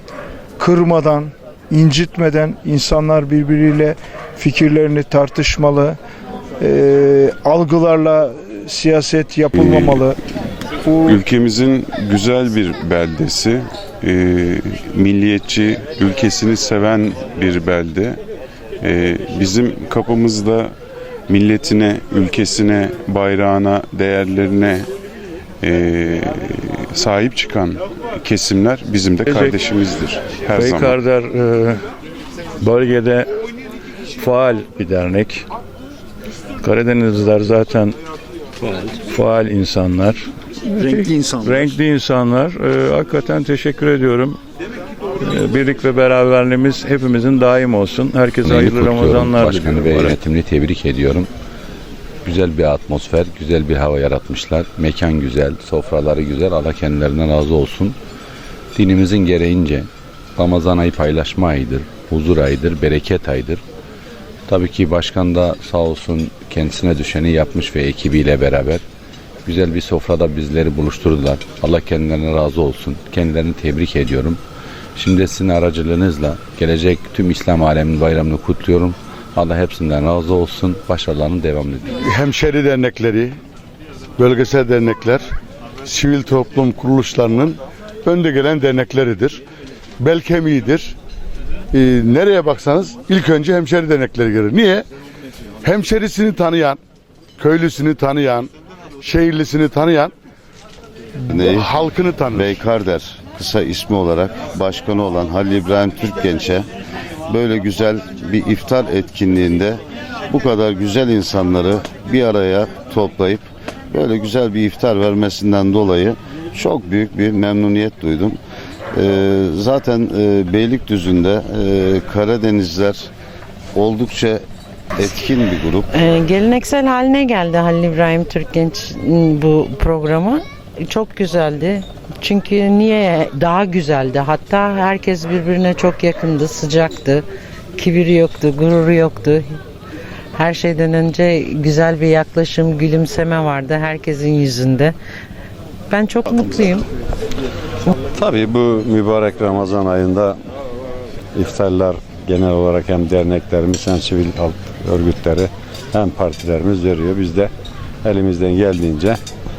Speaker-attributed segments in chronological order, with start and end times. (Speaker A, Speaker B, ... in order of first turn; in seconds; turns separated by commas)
Speaker A: 0.6-6.0, Speaker A: 6.6-10.2, Speaker A: 10.8-11.2, Speaker B: 11.1-18.2, Speaker B: 18.8-20.7, Speaker B: 21.3-24.9, Speaker B: 25.6-31.0, Speaker C: 29.2-29.5, Speaker C: 30.5-31.8, Speaker C: 32.6-33.3, Speaker C: 34.2-35.4, Speaker C: 36.6-38.0, Speaker C: 39.1-40.2, Speaker C: 40.8-44.4, Speaker A: 40.8-41.8, Speaker C: 45.2-50.2, Speaker D: 48.4-51.3, Speaker D: 52.2-58.0, Speaker D: 58.7-63.6, Speaker D: 64.5-68.8, Speaker D: 69.4-74.4, Speaker D: 75.0-82.1, Speaker E: 82.1-83.3, Speaker E: 84.2-85.2, Speaker E: 85.8-89.4, Speaker E: 90.0-90.9, Speaker E: 91.7-94.8, Speaker E: 95.6-96.8, Speaker E: 97.4-98.5, Speaker E: 99.0-100.1, Speaker F: 101.3-101.7, Speaker E: 101.5-102.4, Speaker F: 102.3-106.7, Speaker F: 107.3-118.4, Speaker F: 118.9-123.1, Speaker F: 123.7-124.4, Speaker F: 125.0-125.8, Speaker G: 125.9-139.6, Speaker G: 140.3-144.9, Speaker G: 145.9-146.8, Speaker H: 148.2-150.3, Speaker H: 151.3-157.5, Speaker H: 158.0-159.2